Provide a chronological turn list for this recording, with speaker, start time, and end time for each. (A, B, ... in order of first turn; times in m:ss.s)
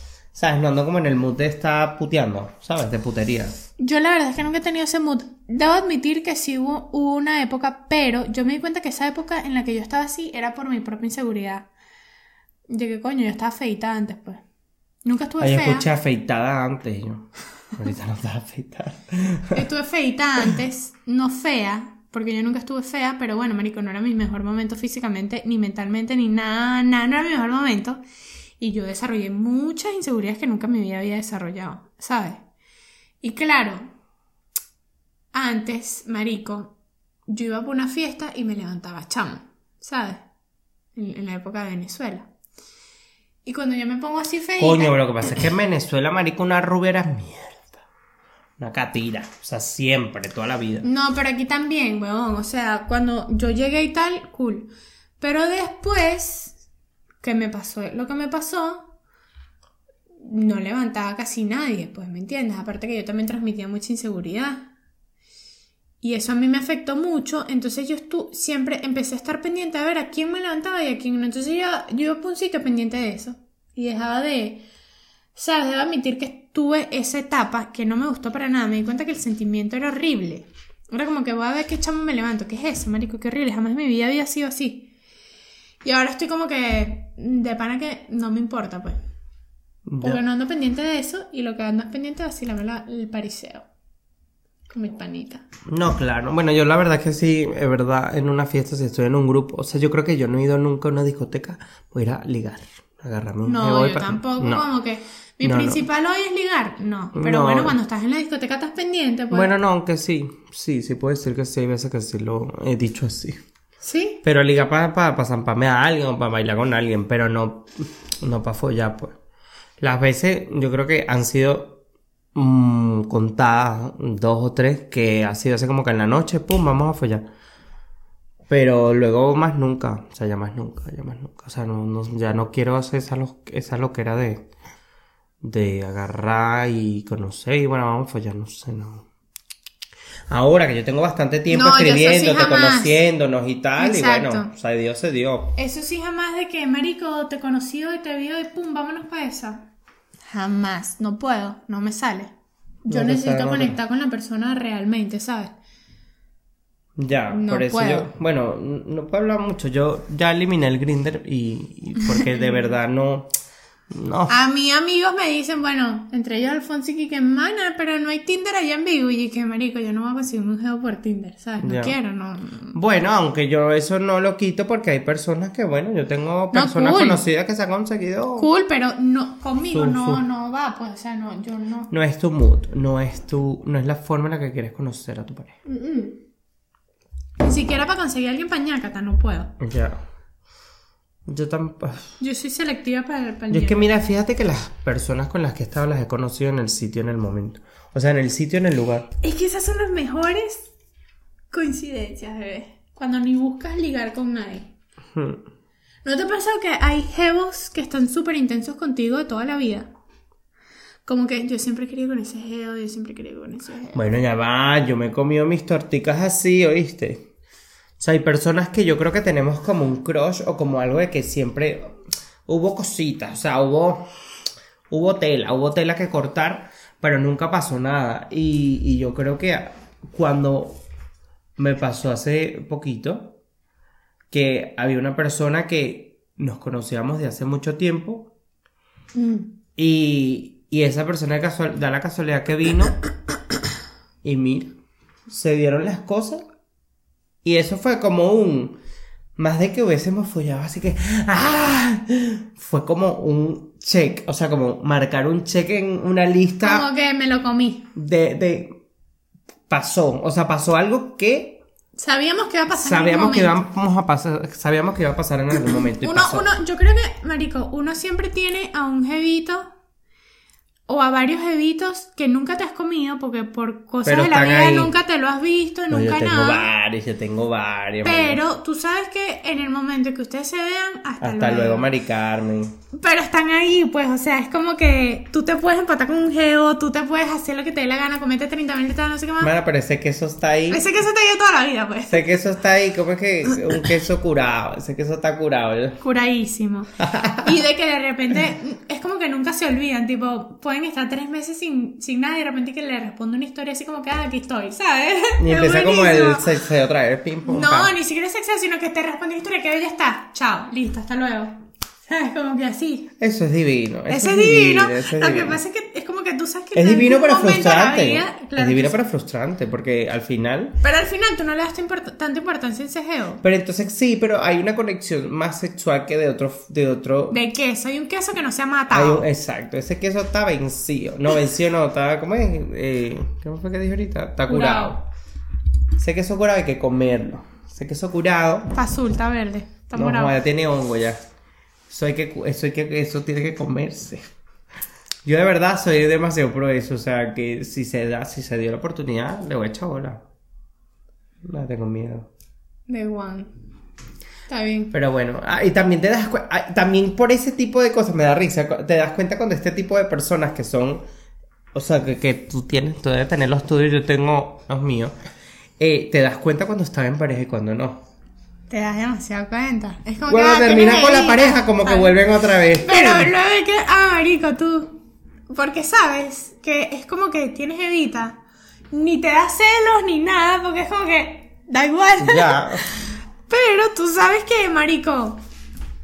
0:00.3-0:03.6 A
0:03.8-0:11.7 B
0:12.7-0:14.4 B
0:15.0-0:15.9 B
0:15.4-0:19.6 A
0:19.5-0:28.0 B
0:28.6-0:32.4 B
0:33.2-0:33.9 B
0:35.3-0:36.7 B
0:37.3-0:40.2 B
0:41.0-0:42.3 B
0:43.4-0:44.9 B
0:44.6-0:47.8 A
0:48.6-0:50.9 A
0:50.8-0:56.6 B
0:57.2-0:58.9 B
1:00.2-1:04.7 B
1:06.0-1:14.7 B
1:15.4-1:24.9 B
1:25.8-1:29.0 B
1:29.9-1:30.2 A
1:30.0-1:33.7 B
1:34.7-1:35.4 B
1:35.7-1:44.7 A
1:43.4-1:49.5 B
1:45.4-1:45.8 A
1:47.1-1:47.8 A
1:49.3-1:53.4 A
1:53.8-1:54.2 B
1:54.2-1:59.2 A
1:59.8-2:01.8 A
2:02.4-2:07.3 A
2:08.5-2:14.4 A
2:15.4-2:19.1 A
2:20.3-2:25.6 A
2:21.5-2:23.0 B
2:23.8-2:24.5 B
2:25.6-2:29.7 B
2:30.3-2:32.3 B
2:32.8-2:35.6 B
2:32.9-2:33.8 A
2:37.0-2:43.3 A
2:37.3-2:38.1 B
2:42.1-2:42.7 B
2:43.9-2:44.3 A
2:44.3-2:52.8 B
2:51.6-2:52.0 A
2:52.7-2:58.5 A
2:56.5-2:57.2 B
2:58.4-3:01.9 B
2:59.7-3:00.2 A
3:01.9-3:05.6 A
3:05.7-3:06.2 B
3:07.4-3:09.5 B
3:09.6-3:10.0 A
3:11.3-3:12.2 A
3:12.2-3:13.9 B
3:13.5-3:19.1 A
3:19.2-3:20.7 B
3:21.5-3:24.7 B
3:25.2-3:25.4 A
3:26.0-3:29.9 B
3:31.1-3:34.0 B
3:33.9-3:37.2 A
3:38.0-3:44.0 A
3:44.9-3:50.8 A
3:51.6-3:53.4 A
3:54.3-3:58.3 A
3:59.2-3:59.5 B
3:59.8-4:03.0 A
4:04.2-4:04.7 A
4:05.3-4:06.4 A
4:07.4-4:08.8 A
4:09.4-4:16.9 A
4:16.6-4:17.9 B
4:18.0-4:18.8 A
4:19.7-4:21.6 A
4:22.0-4:23.6 B
4:22.7-4:26.5 A
4:25.7-4:29.7 B
4:30.9-4:36.7 B
4:34.0-4:34.9 A
4:35.9-4:38.4 A
4:38.0-4:41.9 B
4:41.2-4:42.7 A
4:42.9-4:49.5 B
4:49.4-4:50.8 A
4:50.7-4:52.4 B
4:52.1-4:56.0 A
4:56.0-5:06.5 B
4:57.0-4:57.5 A
5:05.4-5:08.0 A
5:07.4-5:13.1 B
5:13.2-5:15.6 A
5:14.1-5:19.0 B
5:16.8-5:20.8 A
5:20.8-5:23.4 B
5:23.4-5:27.4 A
5:27.3-5:29.2 B
5:28.9-5:35.0 A
5:34.5-5:35.0 B
5:36.0-5:38.8 A
5:38.8-5:40.4 B
5:39.9-5:41.2 A
5:41.9-5:44.2 A
5:45.2-5:50.2 A
5:51.4-5:52.3 A
5:52.9-5:53.5 B
5:54.5-5:54.9 B
5:54.9-6:01.0 A
6:01.7-6:05.1 A
6:05.8-6:08.0 A
6:08.7-6:12.2 B
6:10.3-6:13.3 A
6:12.8-6:15.0 B
6:15.5-6:18.4 B
6:18.9-6:25.4 B
6:22.2-6:22.8 A